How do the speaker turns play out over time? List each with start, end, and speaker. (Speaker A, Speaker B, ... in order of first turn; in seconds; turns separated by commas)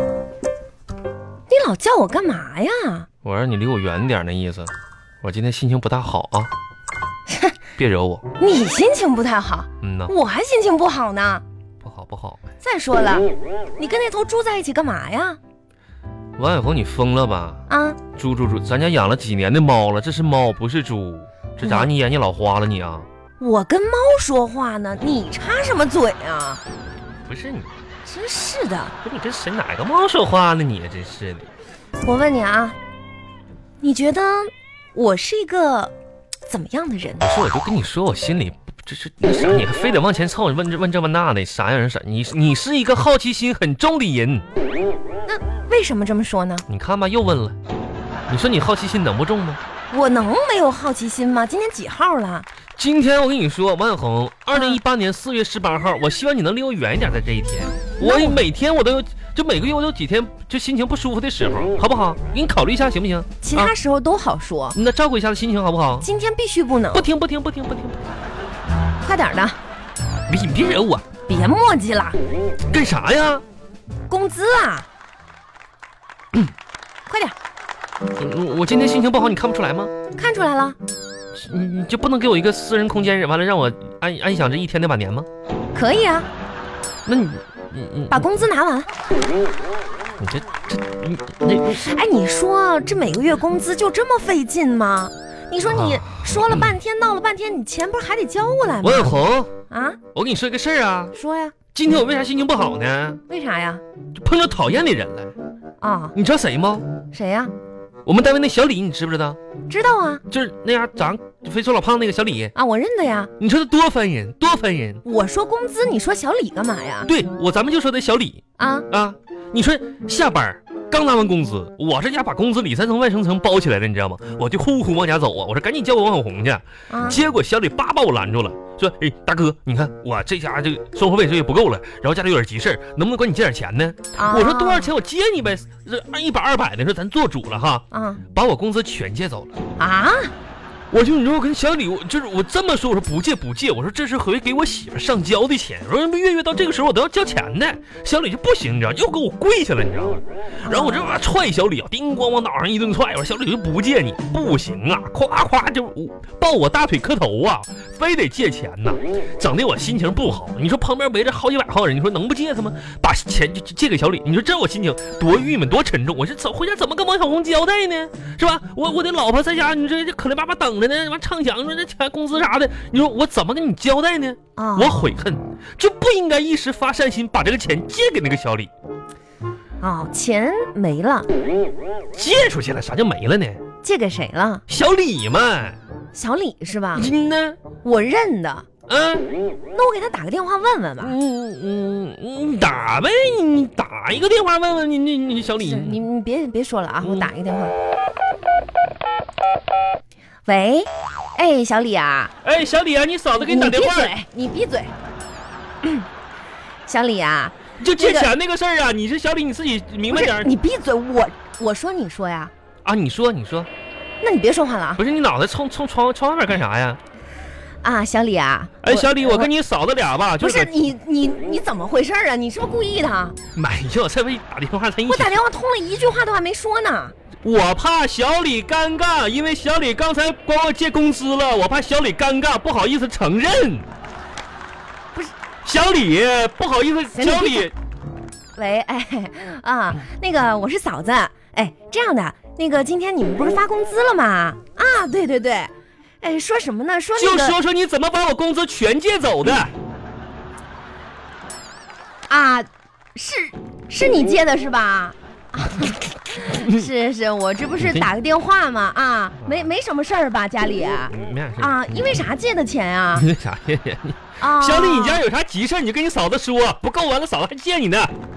Speaker A: 1.5-3.1, Speaker B: 3.2-6.5, Speaker B: 7.8-8.2, Speaker A: 8.4-11.4, Speaker B: 9.8-10.1, Speaker B: 11.8-12.4, Speaker A: 12.6-15.4, Speaker B: 16.4-23.1, Speaker A: 17.7-18.0, Speaker A: 21.6-21.9, Speaker A: 23.4-26.6, Speaker B: 27.3-27.7, Speaker A: 28.0-28.9, Speaker B: 29.0-31.5, Speaker A: 32.0-32.8, Speaker A: 33.8-35.9, Speaker A: 36.5-37.3, Speaker B: 37.2-44.5, Speaker A: 45.2-46.6, Speaker B: 46.7-47.5, Speaker B: 48.3-49.6, Speaker A: 49.9-52.5, Speaker B: 52.8-63.7, Speaker A: 54.5-54.8, Speaker A: 58.0-58.4, Speaker A: 63.4-64.8, Speaker B: 64.7-66.1, Speaker A: 66.0-67.0, Speaker B: 66.9-68.0, Speaker A: 69.0-69.6, Speaker B: 70.3-71.0, Speaker A: 71.3-72.2, Speaker B: 72.7-73.4, Speaker A: 74.1-74.9, Speaker A: 77.1-77.3, Speaker B: 78.2-79.9, Speaker A: 80.1-80.8, Speaker B: 81.3-85.3, Speaker A: 85.7-86.3, Speaker B: 87.0-88.2, Speaker A: 88.1-88.9, Speaker B: 90.2-91.8, Speaker A: 91.6-99.2, Speaker B: 95.7-96.8, Speaker B: 98.8-99.5, Speaker A: 99.7-100.0, Speaker B: 100.1-101.1, Speaker A: 101.1-101.5, Speaker B: 101.7-103.2, Speaker A: 103.3-103.8, Speaker B: 104.1-105.3, Speaker A: 105.8-106.1, Speaker B: 106.1-106.9, Speaker A: 107.1-107.5, Speaker B: 108.0-109.4, Speaker A: 109.7-110.2, Speaker B: 110.3-112.5, Speaker A: 112.5-113.3, Speaker B: 113.4-115.0, Speaker A: 115.0-117.1, Speaker B: 117.1-139.5, Speaker A: 118.6-118.9, Speaker A: 126.9-127.2, Speaker A: 134.2-134.9, Speaker A: 137.9-138.2, Speaker A: 139.8-140.3, Speaker B: 140.9-178.7, Speaker A: 150.6-151.1, Speaker A: 174.6-175.1, Speaker A: 179.8-181.3, Speaker B: 182.1-183.6, Speaker A: 183.8-184.6, Speaker B: 184.7-185.8, Speaker A: 186.1-187.1, Speaker B: 186.9-187.6, Speaker A: 187.8-188.7, Speaker B: 188.9-189.2, Speaker A: 189.7-191.1, Speaker B: 191.0-196.0, Speaker A: 195.6-197.7, Speaker B: 197.0-197.3, Speaker A: 200.4-202.3, Speaker B: 202.4-204.1, Speaker A: 203.4-204.9, Speaker A: 206.8-208.3, Speaker B: 207.8-210.5, Speaker A: 210.1-212.5, Speaker B: 212.8-213.7, Speaker A: 214.2-215.0, Speaker B: 215.0-217.0, Speaker A: 217.8-219.5, Speaker B: 218.8-220.7, Speaker A: 220.4-223.4, Speaker B: 223.5-225.4, Speaker A: 225.1-227.1, Speaker B: 227.4-233.8, Speaker B: 235.6-237.7, Speaker A: 237.1-237.7, Speaker A: 238.6-247.6, Speaker B: 247.2-249.7, Speaker A: 252.3-263.3, Speaker B: 256.4-256.9, Speaker B: 257.8-258.1, Speaker B: 259.4-259.7, Speaker B: 261.1-262.3, Speaker B: 263.1-268.1, Speaker A: 264.4-265.2